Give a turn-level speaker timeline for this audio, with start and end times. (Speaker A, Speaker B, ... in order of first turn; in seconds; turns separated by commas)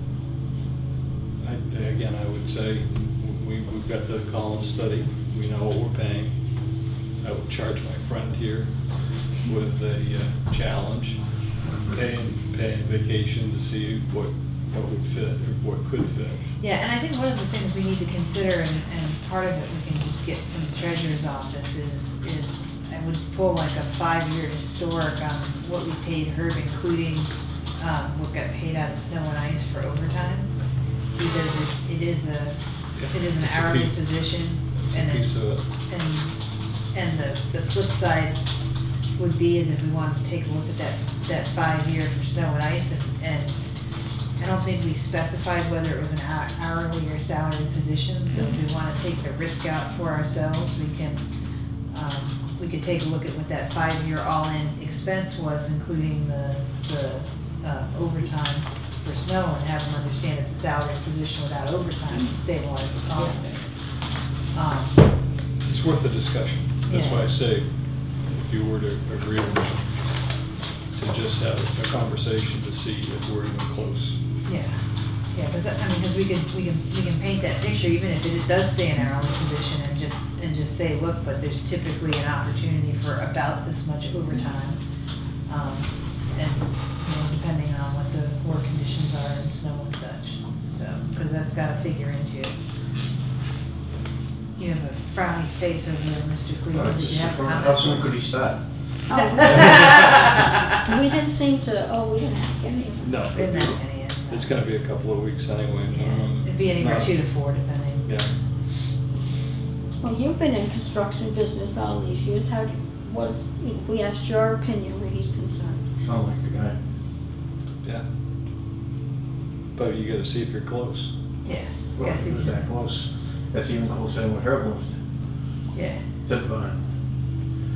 Speaker A: 1.4-6.3, Speaker A: 7.2-11.2, Speaker B: 11.7-11.9, Speaker A: 11.9-16.5, Speaker C: 16.5-30.5, Speaker C: 31.1-32.6, Speaker A: 33.0-34.0, Speaker C: 33.1-36.3, Speaker A: 34.8-35.6, Speaker C: 36.9-38.4, Speaker C: 39.2-43.6, Speaker C: 44.4-51.2, Speaker C: 51.9-63.7, Speaker C: 64.5-65.0, Speaker A: 65.6-67.7, Speaker C: 66.9-67.3, Speaker A: 68.2-69.9, Speaker A: 70.9-74.2, Speaker C: 74.4-74.8, Speaker C: 75.3-84.8, Speaker C: 85.5-92.5, Speaker C: 94.5-98.1, Speaker B: 96.7-98.6, Speaker D: 99.1-100.1, Speaker C: 99.1-100.6, Speaker A: 99.6-100.2, Speaker D: 100.8-103.1, Speaker A: 103.0-103.8, Speaker C: 103.3-104.5, Speaker A: 104.3-107.2, Speaker C: 105.9-108.1, Speaker D: 110.0-115.9, Speaker B: 116.0-116.8, Speaker A: 119.7-121.1, Speaker C: 121.4-122.6, Speaker B: 122.0-124.9, Speaker C: 125.7-126.0, Speaker B: 126.2-126.8